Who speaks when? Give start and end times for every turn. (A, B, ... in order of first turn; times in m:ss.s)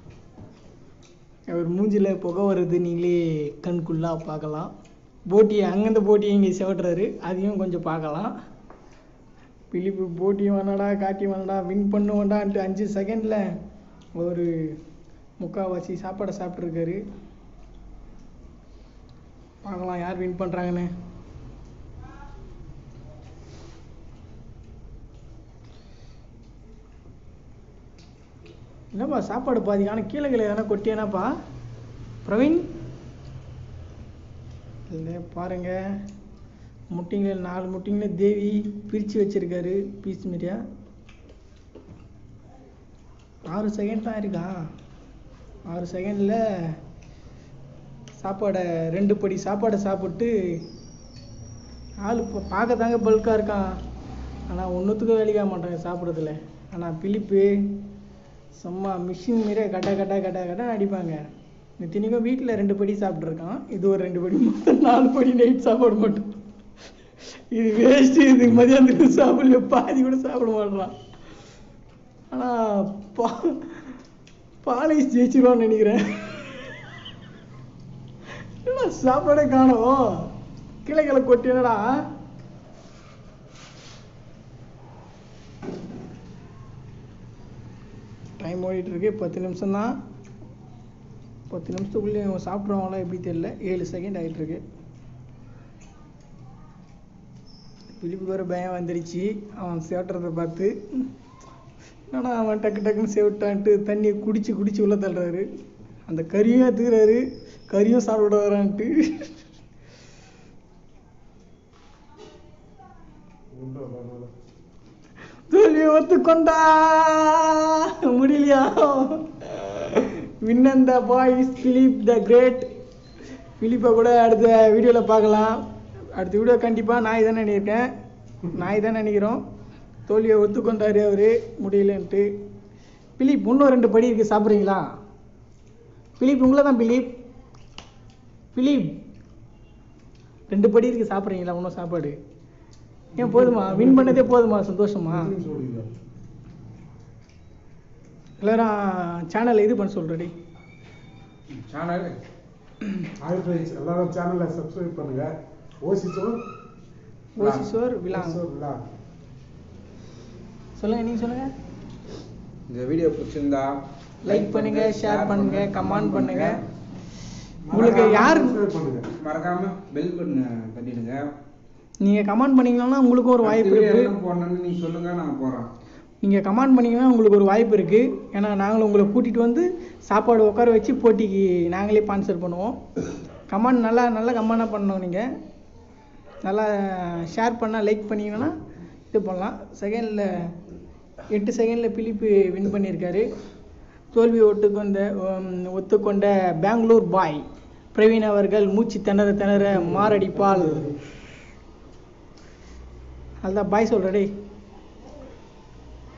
0:01.5-0:04.7 A
0:05.3-0:08.3 A
0:09.7-0:13.4 A
0:14.2-0:14.8 A
0:15.4-0:17.0 A
0:19.6-0:20.9 A
0:28.9-0:31.3 A
0:32.2-0:32.7 A
0:34.9-0:35.8 A
0:36.9-0:40.6 A
0:43.5-0:44.5 A
0:45.7-0:46.8 A
0:48.2-0:50.6 A
0:52.0-0:53.7 A
0:54.5-0:57.9 A
0:58.6-1:01.2 A
1:01.8-1:06.3 A
1:07.5-1:10.9 A
1:12.3-1:13.7 A
1:14.6-1:16.7 A
1:18.6-1:20.3 A
1:20.8-1:22.0 A
1:28.4-1:30.0 A
1:31.5-1:34.6 A
1:38.0-1:41.1 A
1:42.1-1:45.5 A
1:46.1-1:49.3 A
1:53.5-1:54.3 B
1:55.5-2:02.7 A
2:03.6-2:05.6 A
2:06.2-2:07.9 A
2:08.5-2:09.4 A
2:10.1-2:12.3 A
2:13.2-2:14.8 A
2:16.2-2:17.1 A
2:18.5-2:18.9 A
2:20.5-2:22.2 A
2:23.2-2:25.3 A
2:23.2-2:24.3 B
2:25.1-2:25.9 B
2:28.4-2:30.3 A
2:31.5-2:32.2 C
2:33.2-2:36.4 B
2:37.4-2:38.4 A
2:37.4-2:37.7 C
2:38.1-2:38.8 B
2:40.8-2:41.5 A
2:42.7-2:46.6 C
2:44.2-2:46.6 A
2:47.7-2:49.1 B
2:47.7-2:48.6 A
2:47.8-2:48.1 C
2:49.1-2:51.3 C
2:52.0-2:54.1 A
2:53.4-2:55.7 C
2:56.2-3:02.8 A
3:03.5-3:05.3 A
3:06.4-3:08.6 A
3:09.1-3:10.5 A
3:11.3-3:13.3 A
3:14.1-3:21.0 A
3:19.7-3:21.0 B
3:23.4-3:24.3 A